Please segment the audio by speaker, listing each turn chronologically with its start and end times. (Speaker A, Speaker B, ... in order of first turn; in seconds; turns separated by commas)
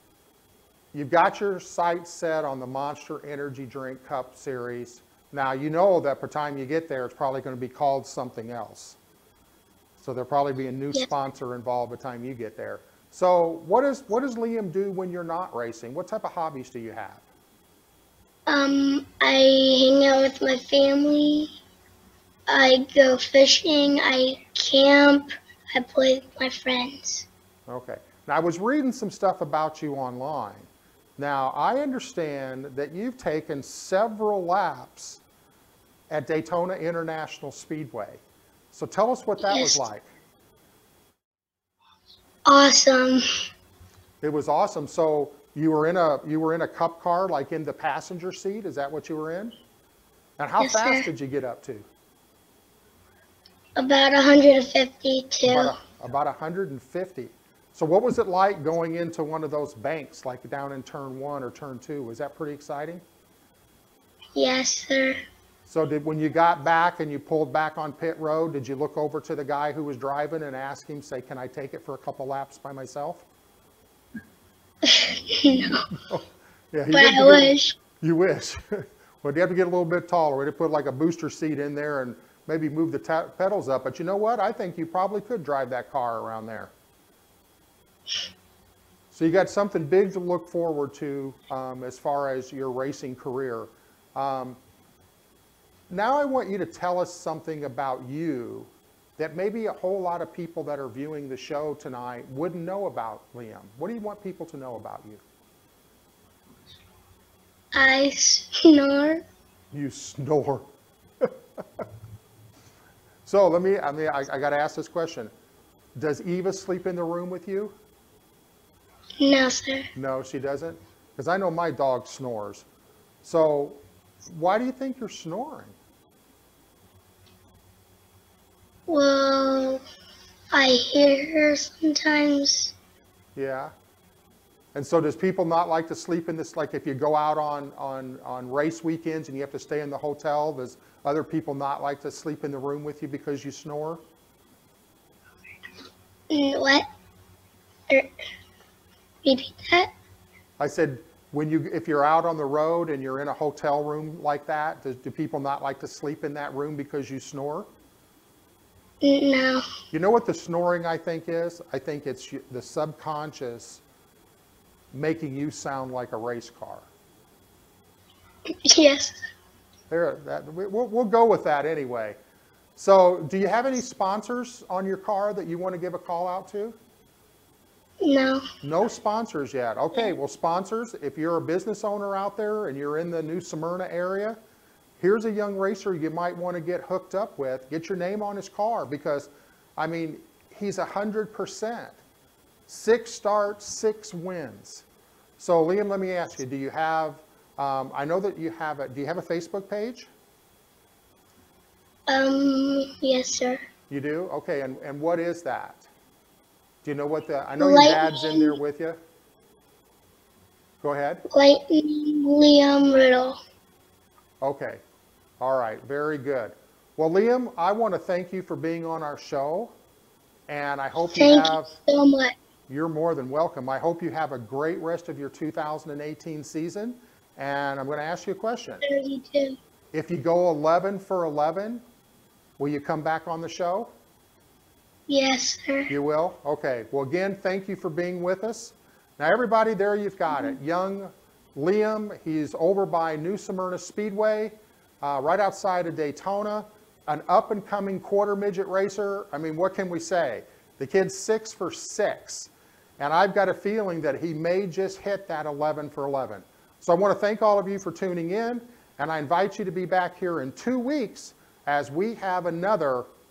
Speaker A: 0.9-9.0, Speaker A: 10.0-17.2, Speaker B: 18.5-21.5, Speaker B: 22.5-27.3, Speaker A: 27.7-35.2, Speaker A: 36.1-40.1, Speaker B: 39.4-39.9, Speaker B: 42.5-43.2, Speaker A: 44.2-49.5, Speaker A: 50.4-51.9, Speaker B: 50.6-51.1, Speaker B: 53.8-55.8, Speaker A: 55.5-63.0, Speaker B: 64.3-65.2, Speaker A: 65.7-73.2, Speaker B: 74.8-75.8, Speaker A: 76.1-86.7, Speaker B: 76.9-77.8, Speaker A: 89.1-94.6, Speaker A: 95.9-105.2, Speaker B: 107.7-109.2, Speaker A: 109.7-110.7, Speaker A: 113.2-115.3, Speaker A: 116.0-117.7, Speaker B: 119.2-119.9, Speaker A: 119.9-122.6, Speaker A: 123.2-125.8, Speaker B: 128.9-129.8, Speaker B: 130.5-132.7, Speaker A: 133.3-133.7, Speaker A: 134.7-144.0, Speaker B: 146.3-146.8, Speaker B: 149.2-149.9, Speaker A: 150.6-157.7, Speaker B: 159.0-159.6, Speaker A: 159.9-163.8, Speaker A: 164.9-166.9, Speaker B: 168.6-169.2, Speaker A: 169.9-172.2, Speaker A: 172.8-176.8, Speaker B: 178.0-178.4, Speaker A: 178.6-184.4, Speaker A: 185.0-192.0, Speaker A: 192.7-194.8, Speaker A: 195.4-200.1, Speaker B: 202.1-203.6, Speaker A: 203.9-205.9, Speaker A: 206.8-209.0, Speaker B: 207.6-208.6, Speaker A: 210.8-211.2, Speaker B: 211.3-213.4, Speaker A: 214.4-214.8, Speaker A: 215.4-219.7, Speaker A: 220.5-221.7, Speaker B: 221.1-222.3, Speaker A: 222.7-228.8, Speaker B: 228.8-229.6, Speaker A: 229.9-231.8, Speaker A: 232.6-233.9, Speaker B: 235.1-235.9, Speaker A: 235.9-263.1